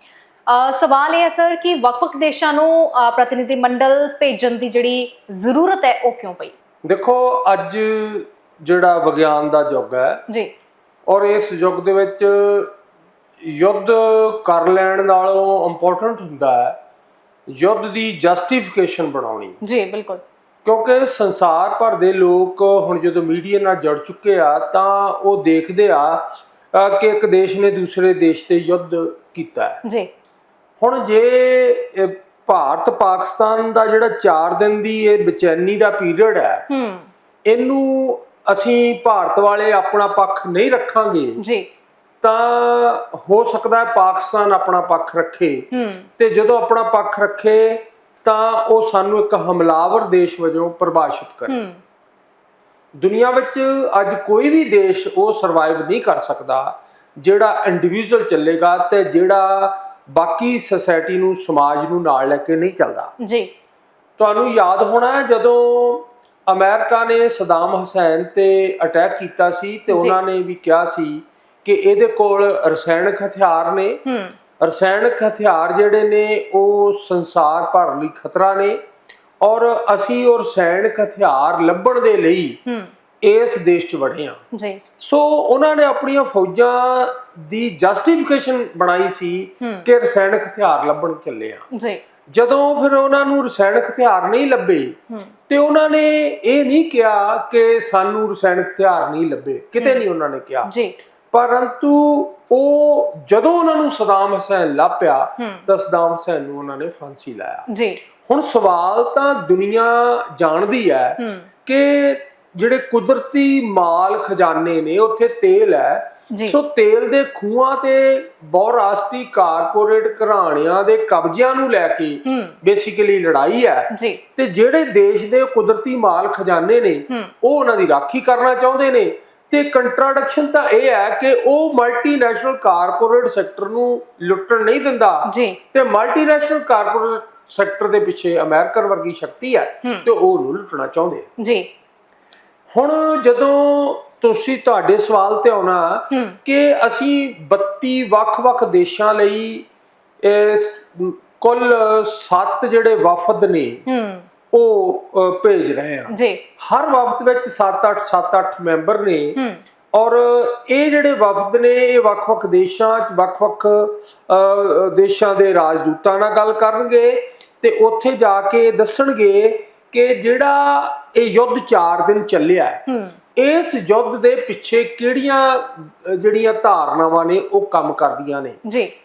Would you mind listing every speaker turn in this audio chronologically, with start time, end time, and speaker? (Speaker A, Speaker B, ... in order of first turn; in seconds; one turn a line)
Speaker A: 0.5-6.5
Speaker B: 6.8-10.2
Speaker B: 11.1-12.7
Speaker B: 13.4-16.8
Speaker B: 17.5-19.6
Speaker A: 19.6-20.2
Speaker B: 20.6-29.8
Speaker A: 29.8-30.1
Speaker B: 30.8-36.7
Speaker A: 36.7-37.1
Speaker B: 37.5-41.4
Speaker A: 41.4-41.7
Speaker B: 42.2-51.6
Speaker A: 45.7-46.1
Speaker A: 51.5-51.8
Speaker B: 53.0-63.1
Speaker A: 63.2-63.5
Speaker B: 64.2-74.0
Speaker A: 69.9-70.2
Speaker A: 74.1-74.3
Speaker B: 74.6-78.8
Speaker B: 79.4-82.6
Speaker B: 83.2-84.4
Speaker A: 84.5-84.8
Speaker B: 85.0-91.7
Speaker A: 91.7-92.0
Speaker B: 92.3-100.7
Speaker A: 99.8-100.0
Speaker A: 100.7-101.0
Speaker B: 101.3-107.7
Speaker A: 105.4-105.6
Speaker A: 107.7-108.0
Speaker B: 108.2-141.3
Speaker A: 111.2-111.5
Speaker A: 116.3-116.6
Speaker A: 122.3-122.5
Speaker A: 123.9-124.2
Speaker A: 135.3-135.6
Speaker A: 141.4-141.7
Speaker B: 142.7-149.7
Speaker A: 146.1-146.4
Speaker B: 150.2-153.8
Speaker A: 153.9-154.3
Speaker B: 154.5-159.4
Speaker A: 156.1-156.4
Speaker A: 159.4-159.6
Speaker B: 159.9-178.6
Speaker A: 172.9-173.2
Speaker A: 178.7-178.9